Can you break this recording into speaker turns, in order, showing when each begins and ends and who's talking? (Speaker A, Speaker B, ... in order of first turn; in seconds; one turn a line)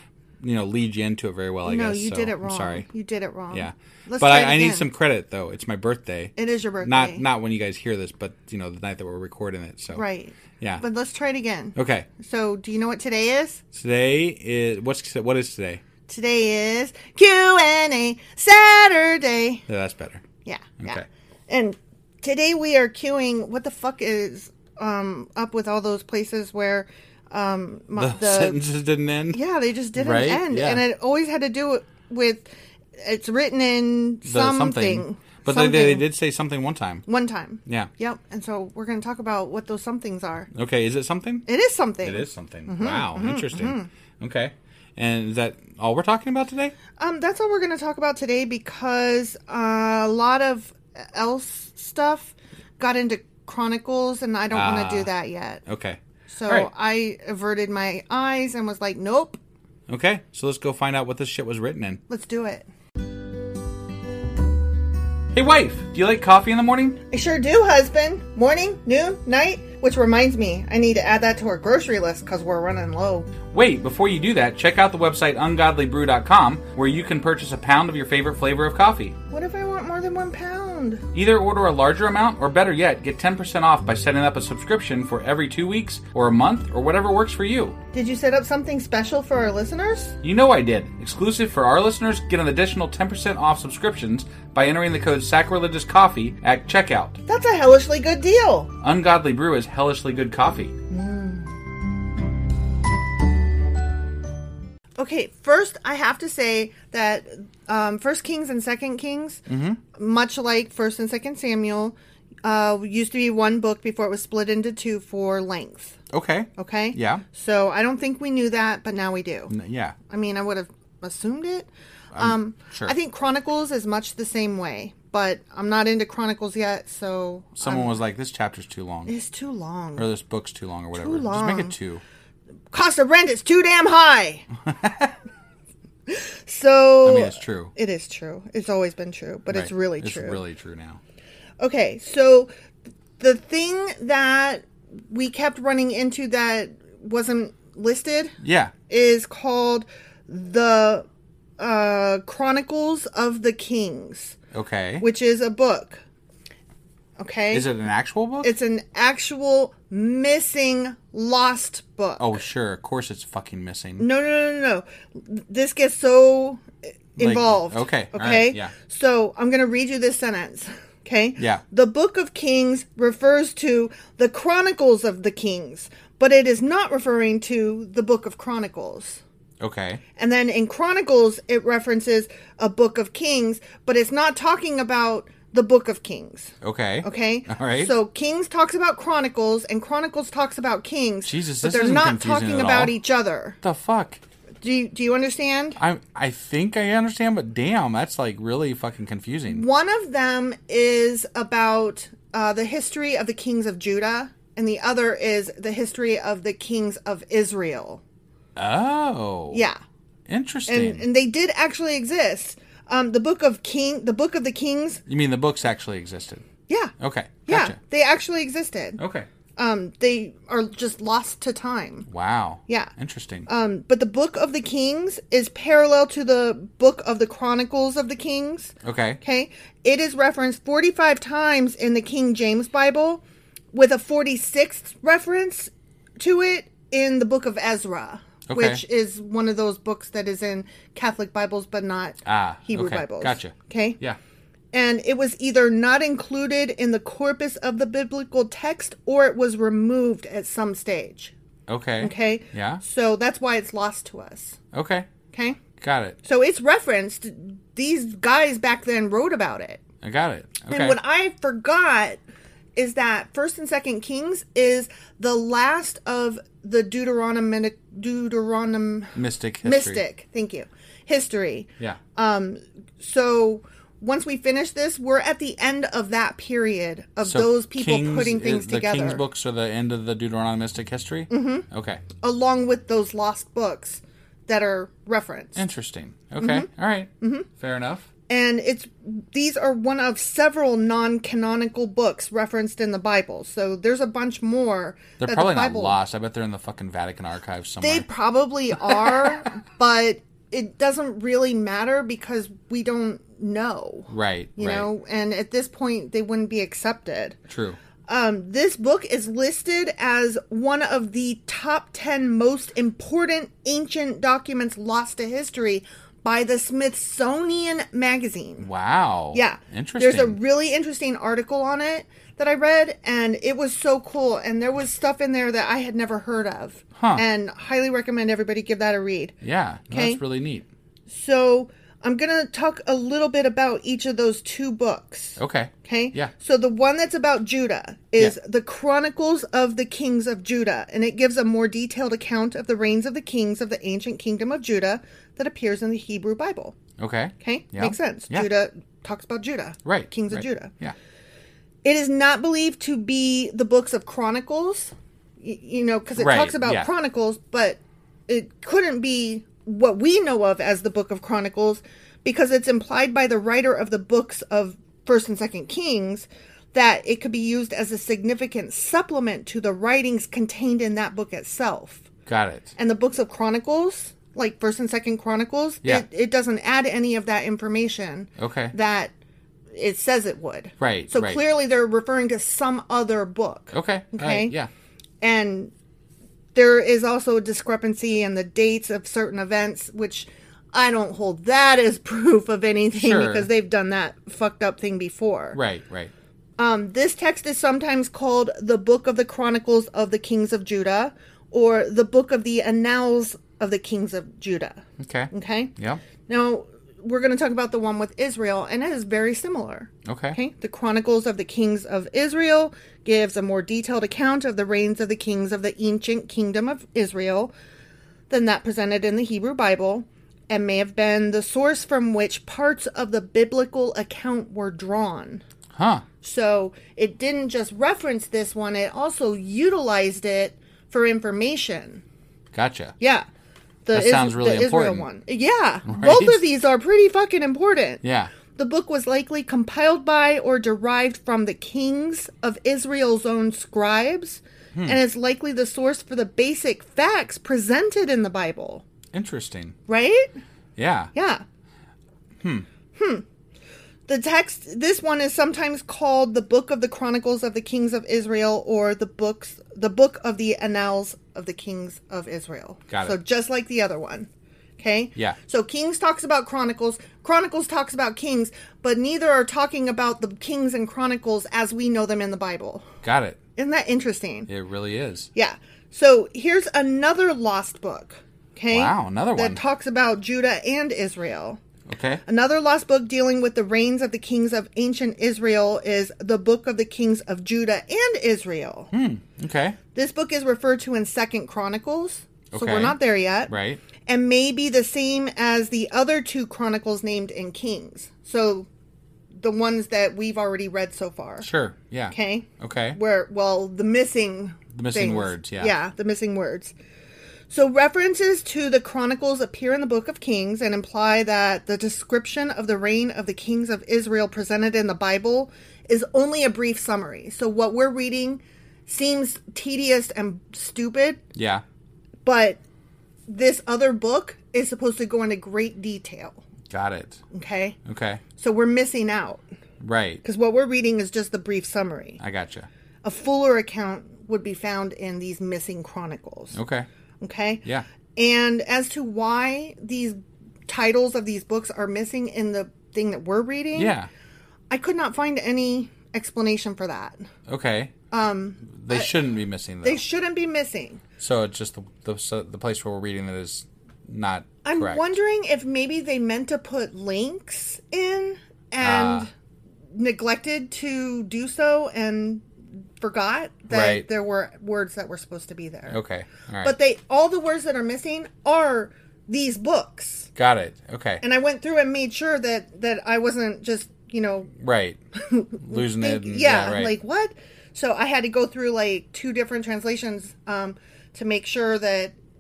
Speaker A: 0.4-2.9
Speaker B: 1.6-4.9
Speaker A: 3.5-10.0
Speaker B: 6.4-7.2
Speaker B: 9.9-13.6
Speaker A: 11.8-12.1
Speaker A: 13.7-15.8
Speaker B: 16.1-19.6
Speaker A: 19.7-20.2
Speaker B: 20.4-28.6
Speaker A: 28.0-29.4
Speaker B: 29.3-36.1
Speaker A: 29.9-30.9
Speaker A: 34.2-37.1
Speaker B: 37.1-40.5
Speaker A: 40.5-41.5
Speaker B: 41.5-43.9
Speaker A: 42.0-46.8
Speaker B: 47.0-55.6
Speaker A: 54.5-55.1
Speaker A: 55.7-56.7
Speaker B: 56.3-59.4
Speaker A: 59.9-62.0
Speaker B: 62.1-62.7
Speaker A: 65.3-67.0
Speaker B: 67.1-73.3
Speaker A: 73.5-79.2
Speaker B: 79.3-81.0
Speaker A: 81.1-87.8
Speaker B: 87.9-90.2
Speaker A: 90.2-97.2
Speaker B: 97.3-98.7
Speaker A: 98.8-100.8
Speaker B: 100.9-101.5
Speaker B: 105.0-109.4
Speaker A: 109.5-109.8
Speaker B: 109.9-116.0
Speaker A: 116.1-117.2
Speaker B: 116.6-119.5
Speaker A: 119.5-120.0
Speaker B: 120.1-128.0
Speaker A: 122.1-122.9
Speaker A: 127.6-129.1
Speaker B: 129.1-130.1
Speaker A: 130.0-132.0
Speaker B: 130.9-131.8
Speaker B: 132.7-134.5
Speaker A: 134.7-135.1
Speaker B: 136.1-140.4
Speaker A: 137.1-137.7
Speaker A: 139.5-141.0
Speaker B: 141.6-142.5
Speaker B: 143.2-148.3
Speaker A: 148.4-148.7
Speaker B: 148.9-151.1
Speaker B: 151.6-154.4
Speaker A: 154.5-155.1
Speaker B: 155.0-156.0
Speaker B: 157.2-157.7
Speaker A: 157.5-158.5
Speaker B: 158.4-162.3
Speaker A: 162.2-164.1
Speaker B: 164.0-166.6
Speaker B: 167.2-179.2
Speaker A: 167.2-168.7
Speaker A: 171.4-171.6
Speaker A: 179.6-180.0
Speaker B: 180.2-193.6
Speaker A: 186.6-187.9
Speaker A: 191.2-193.0
Speaker A: 193.6-194.2
Speaker B: 194.6-195.8
Speaker A: 195.8-199.7
Speaker B: 199.5-208.0
Speaker A: 208.6-209.6
Speaker B: 209.5-209.8
Speaker A: 210.3-211.1
Speaker B: 210.7-215.0
Speaker A: 215.1-216.4
Speaker B: 216.7-216.9
Speaker A: 217.0-217.8
Speaker B: 217.5-219.0
Speaker A: 219.0-219.3
Speaker B: 219.6-222.1
Speaker A: 222.1-223.5
Speaker B: 222.7-222.9
Speaker B: 223.5-244.0
Speaker A: 228.8-229.2
Speaker A: 238.5-238.8
Speaker A: 242.2-244.2
Speaker B: 244.7-251.3
Speaker A: 251.7-252.8
Speaker B: 252.0-254.6
Speaker A: 254.7-255.1
Speaker B: 255.3-255.6
Speaker A: 255.8-256.2
Speaker B: 256.2-259.8
Speaker A: 260.0-261.0
Speaker B: 260.7-262.2
Speaker B: 262.8-279.2
Speaker A: 269.1-270.0
Speaker A: 277.2-282.0
Speaker B: 281.3-281.6
Speaker B: 282.2-285.7
Speaker A: 285.6-288.1
Speaker B: 286.4-286.7
Speaker B: 287.2-287.5
Speaker B: 288.3-296.0
Speaker A: 295.2-298.1
Speaker B: 297.8-307.4
Speaker A: 304.1-304.9
Speaker A: 307.5-307.8
Speaker B: 308.1-318.7
Speaker A: 318.6-320.4
Speaker B: 319.3-329.4
Speaker A: 327.0-327.2
Speaker A: 329.4-330.7
Speaker B: 329.9-330.2
Speaker B: 331.1-346.8
Speaker A: 335.4-336.3
Speaker A: 347.0-348.5
Speaker B: 347.4-350.7
Speaker A: 349.9-350.9
Speaker B: 351.8-372.1
Speaker A: 356.2-356.9
Speaker A: 372.3-372.7
Speaker B: 372.8-379.1
Speaker A: 378.4-378.7
Speaker B: 379.7-384.6
Speaker A: 380.8-381.4
Speaker A: 383.7-384.7
Speaker B: 385.2-385.7
Speaker B: 386.6-395.6
Speaker A: 392.9-393.5
Speaker A: 395.5-396.1
Speaker B: 396.6-405.7
Speaker A: 405.0-406.0
Speaker B: 406.3-417.5
Speaker A: 410.1-410.4
Speaker B: 418.3-425.4
Speaker A: 425.8-426.1
Speaker B: 426.2-432.0
Speaker A: 432.5-432.9
Speaker B: 433.0-433.3
Speaker B: 433.9-438.0
Speaker A: 433.9-435.1
Speaker A: 435.9-436.4
Speaker A: 438.0-438.3
Speaker B: 438.6-448.9
Speaker A: 444.8-445.0
Speaker A: 449.1-449.8
Speaker B: 449.9-450.3
Speaker A: 450.8-451.1
Speaker B: 451.1-451.4
Speaker A: 452.4-452.7
Speaker B: 453.0-453.2
Speaker B: 454.1-472.9
Speaker A: 462.9-463.2
Speaker A: 473.0-473.4
Speaker B: 473.6-474.5
Speaker A: 474.5-475.3
Speaker B: 475.4-481.6
Speaker A: 478.7-479.6
Speaker A: 481.9-482.2
Speaker B: 482.3-488.9
Speaker A: 488.9-489.8
Speaker B: 489.9-493.5
Speaker A: 492.5-493.8
Speaker B: 494.1-498.7
Speaker B: 499.4-501.5
Speaker A: 501.4-503.0
Speaker B: 502.1-506.7
Speaker A: 504.7-505.8
Speaker B: 507.5-521.2
Speaker A: 521.3-521.6
Speaker B: 522.2-522.6
Speaker B: 523.3-526.4
Speaker A: 526.7-527.2
Speaker B: 527.3-527.8
Speaker A: 527.9-528.2
Speaker B: 528.4-529.4
Speaker A: 529.8-530.2
Speaker B: 530.2-532.2
Speaker A: 532.2-532.7
Speaker B: 533.0-536.6
Speaker A: 536.5-536.9
Speaker B: 537.2-537.6
Speaker B: 538.1-544.0
Speaker A: 543.8-544.1
Speaker B: 544.7-547.2
Speaker A: 547.5-547.9
Speaker B: 548.1-549.1
Speaker A: 548.7-550.0
Speaker B: 549.8-551.0
Speaker A: 551.2-555.1
Speaker B: 554.6-559.3
Speaker A: 558.8-559.3
Speaker B: 559.9-562.5
Speaker B: 563.0-566.0
Speaker A: 563.7-564.1
Speaker A: 565.9-566.8
Speaker B: 566.6-570.3
Speaker A: 570.4-571.2
Speaker B: 571.2-574.5
Speaker A: 574.6-575.0
Speaker B: 575.2-582.1
Speaker A: 575.6-576.9